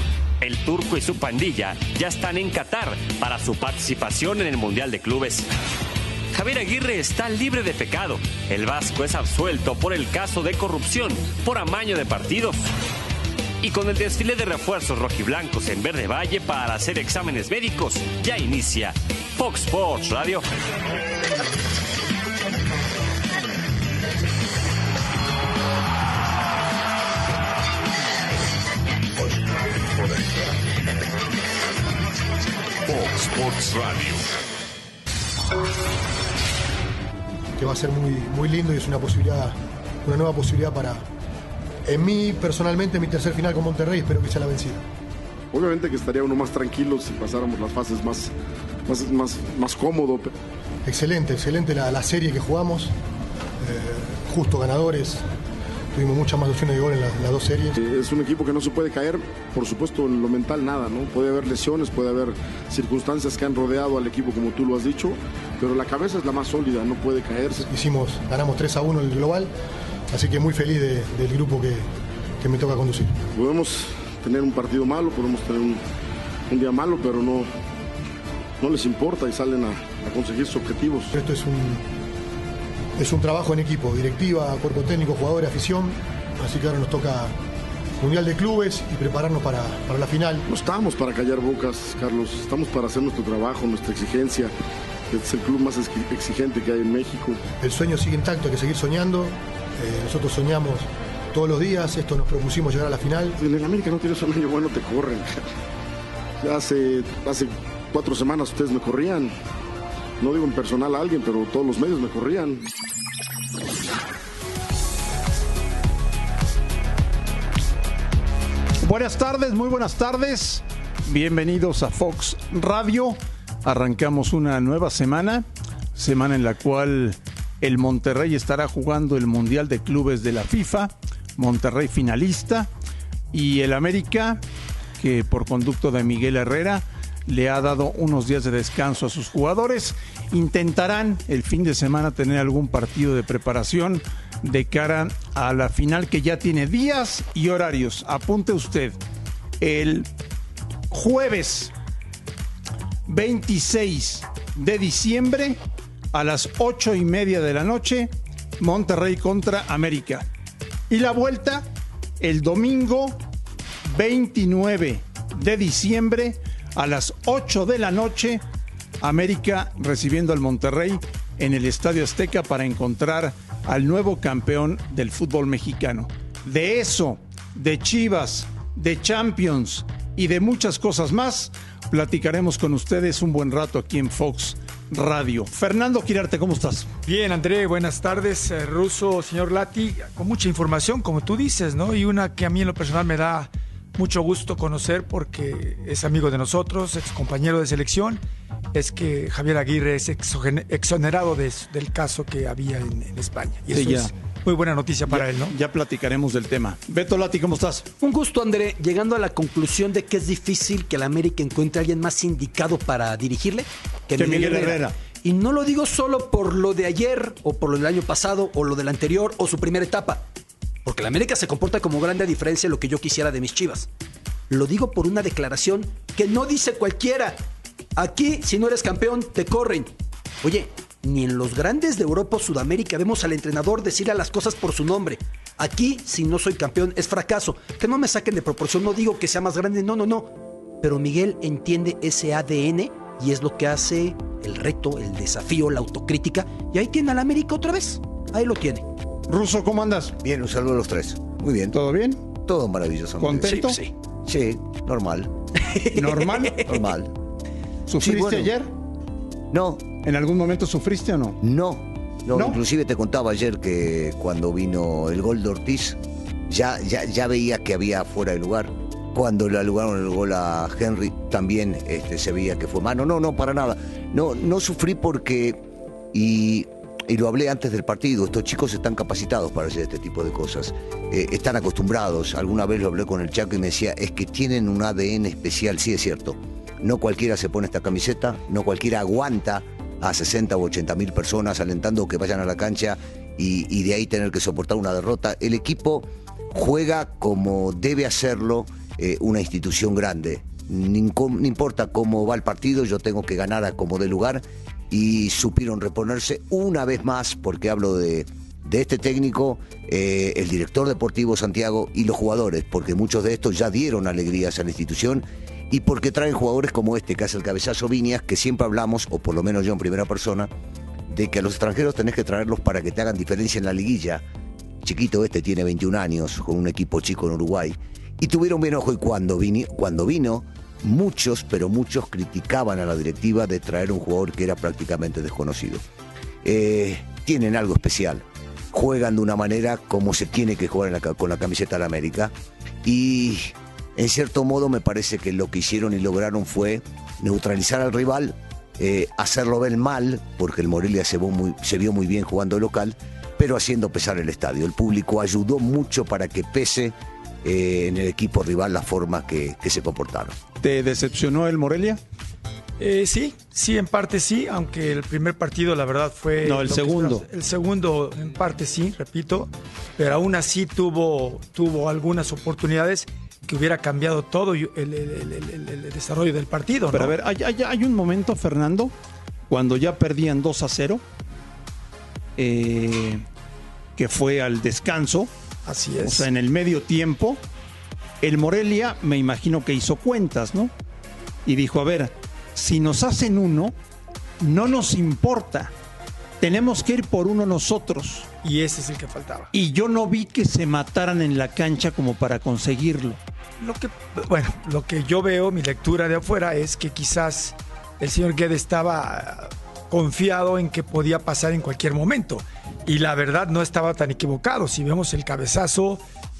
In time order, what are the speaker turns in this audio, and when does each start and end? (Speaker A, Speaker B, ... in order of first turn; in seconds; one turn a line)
Speaker A: 0.4-5.5
Speaker A: 6.3-12.6
Speaker A: 13.6-20.4
Speaker B: 37.6-41.1
Speaker B: 41.9-44.8
Speaker C: 45.5-48.3
Speaker C: 48.9-50.3
Speaker B: 50.9-52.9
Speaker B: 53.6-55.2
Speaker B: 55.9-57.8
Speaker C: 57.8-67.7
Speaker B: 67.7-69.5
Speaker B: 70.1-71.9
Speaker B: 72.4-73.2
Speaker C: 73.3-75.8
Speaker C: 76.5-77.5
Speaker C: 78.6-81.2
Speaker B: 81.2-81.8
Speaker B: 83.0-87.3
Speaker B: 88.0-90.4
Speaker C: 90.5-94.5
Speaker C: 95.1-97.4
Speaker B: 97.6-103.4
Speaker C: 103.4-105.4
Speaker C: 106.4-109.3
Speaker C: 110.2-112.6
Speaker D: 118.8-132.7
Speaker D: 133.3-134.4
Speaker D: 135.0-149.0
Speaker D: 149.6-150.1
Speaker D: 150.9-151.7
Speaker D: 153.1-155.6
Speaker D: 156.1-160.3
Speaker D: 160.9-161.7
Speaker D: 162.2-163.2
Speaker D: 163.8-168.4
Speaker D: 169.0-186.9
Speaker E: 187.1-198.2
Speaker E: 198.7-205.6
Speaker D: 203.7-204.1
Speaker D: 205.1-207.9
Speaker F: 208.0-220.2
Speaker D: 214.2-214.9
Speaker F: 220.8-223.9
Speaker F: 224.5-227.4
Speaker F: 228.0-248.9
Speaker D: 249.3-250.2
Speaker G: 250.2-251.8
Speaker D: 251.7-252.2
Speaker G: 252.4-253.6
Speaker D: 253.2-253.8
Speaker F: 253.4-253.9
Speaker G: 254.3-255.3
Speaker F: 255.6-256.6
Speaker D: 256.0-256.7
Speaker G: 256.6-257.1
Speaker D: 257.9-258.7
Speaker G: 258.0-258.5
Speaker G: 259.5-259.9
Speaker D: 260.0-261.4
Speaker G: 261.4-275.6
Speaker G: 276.1-320.5
Speaker G: 321.1-324.2
Speaker G: 324.8-335.8
Speaker G: 336.4-360.4
Speaker D: 360.6-362.0
Speaker E: 362.8-377.1
Speaker D: 366.4-367.3
Speaker D: 376.9-378.9
Speaker D: 379.5-381.0
Speaker D: 382.4-383.2
Speaker D: 384.0-385.3
Speaker E: 385.7-386.3
Speaker D: 386.0-387.4
Speaker D: 388.2-390.7
Speaker D: 391.5-393.7
Speaker D: 394.4-395.7
Speaker D: 396.4-398.3
Speaker E: 398.4-399.5
Speaker D: 399.5-403.2
Speaker E: 403.6-416.0